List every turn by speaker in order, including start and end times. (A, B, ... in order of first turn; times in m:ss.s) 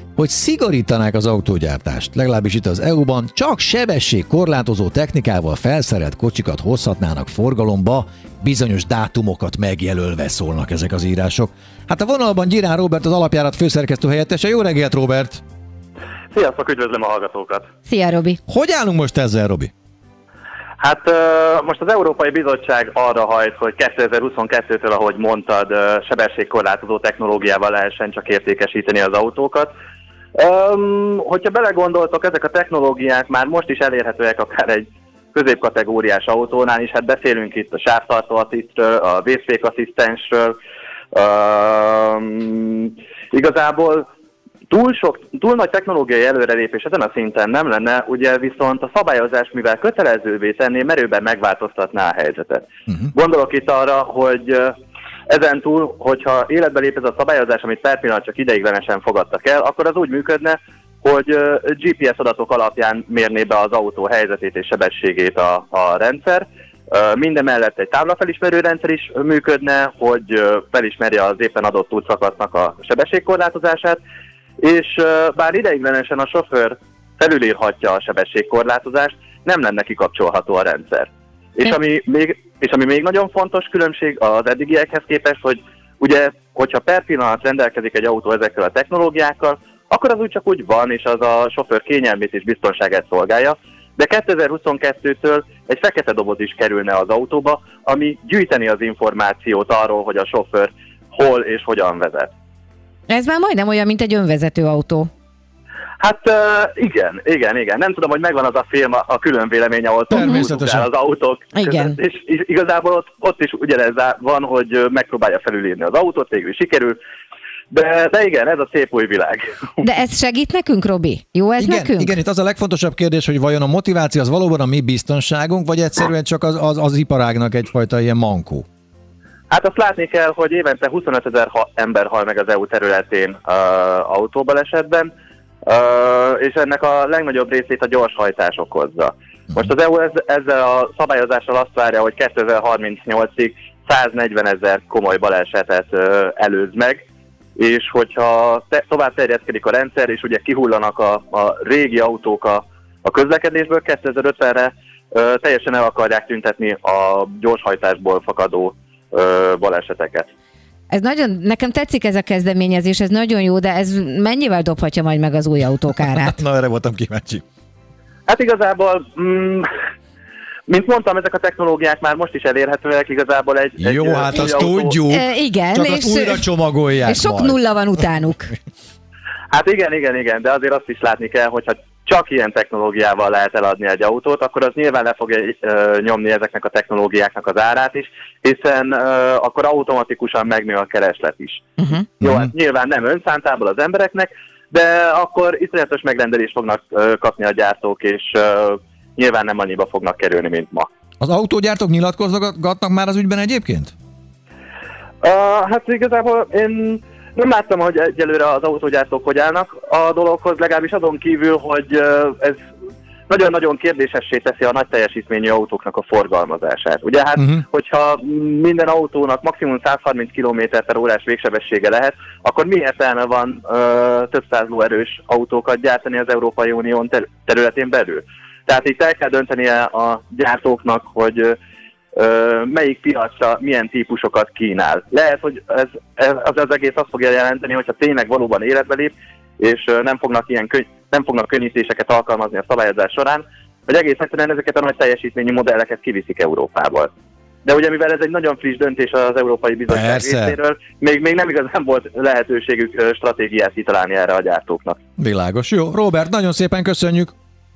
0:00.2-0:15.4 A
0:16.3-0:17.7 B
0:17.9-0:18.4 C
0:18.5-0:19.7 A
0:20.8-0:29.7 B
0:30.3-0:40.6 B
0:41.1-0:44.1 B
0:44.7-0:54.7 B
0:55.3-1:14.0 B
1:14.6-1:42.3 B
1:43.1-1:45.1 C
1:46.0-1:57.0 B
1:50.1-1:50.9 A
1:50.2-1:50.4 C
1:51.5-1:52.0 C
1:57.7-1:59.8 B
1:59.8-2:02.1 C
2:01.6-2:08.6 A
2:09.5-2:15.1 B
2:15.6-2:27.0 B
2:27.6-2:40.3 B
2:40.9-2:46.4 C
2:46.0-2:47.4 A
2:48.3-2:49.7 B
2:50.7-2:55.0 B
2:53.8-2:57.6 A
2:55.1-2:56.4 C
2:57.0-2:58.5 C
2:59.5-3:11.7 B
3:11.8-3:12.0 C
3:12.2-3:20.9 B
3:12.2-3:12.5 A
3:21.2-3:23.9 A
3:25.2-3:32.6 B
3:33.3-3:51.6 B
3:52.1-4:07.1 B
4:07.6-4:15.0 B
4:09.9-4:10.6 A
4:15.2-4:17.3 A